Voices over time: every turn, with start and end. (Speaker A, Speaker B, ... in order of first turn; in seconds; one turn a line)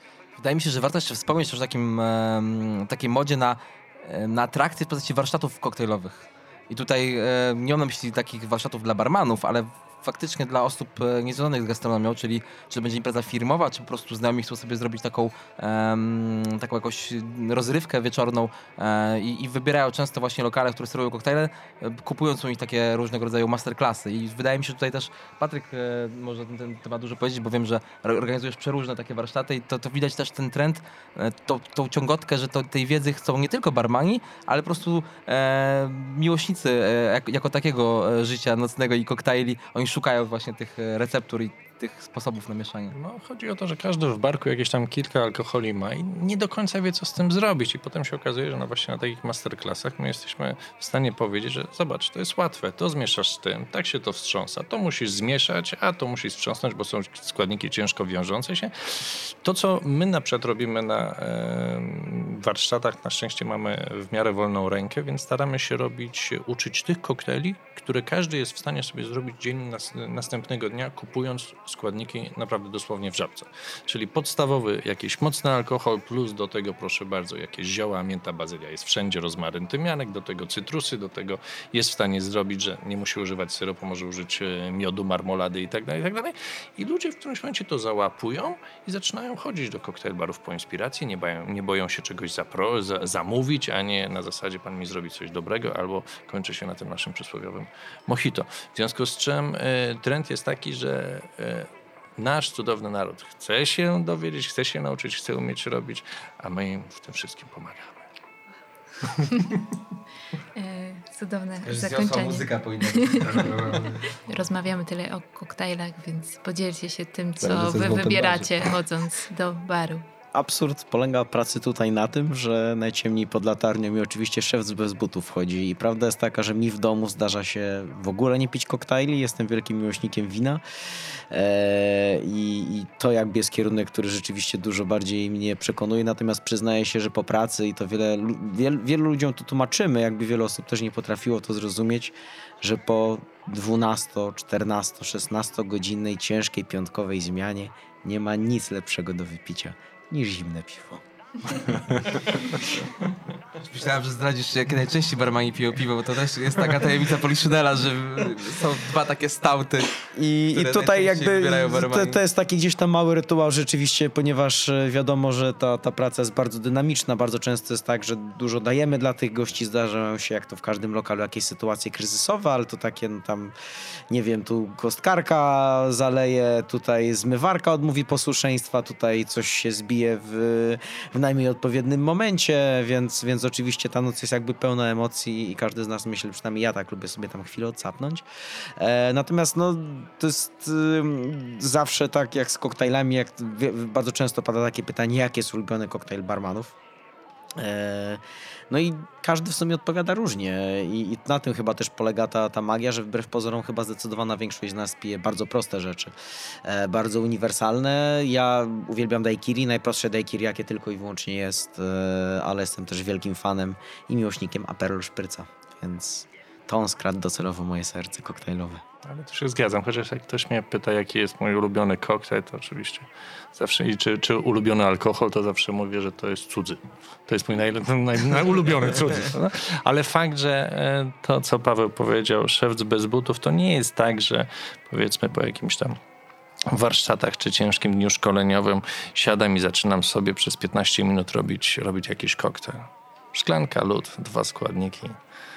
Speaker A: 0.4-43.0
Speaker B: 42.9-108.0
Speaker B: 109.1-109.3
Speaker C: 110.5-113.5
Speaker A: 111.7-114.1
Speaker C: 114.2-120.1
Speaker A: 117.4-118.7
Speaker D: 120.3-130.6
Speaker D: 131.3-151.0
Speaker A: 153.6-159.9
Speaker D: 160.1-173.5
Speaker A: 160.5-162.2
Speaker D: 174.1-188.2
Speaker D: 188.8-196.8
Speaker D: 197.6-218.8
Speaker B: 219.0-236.0
Speaker B: 236.7-245.2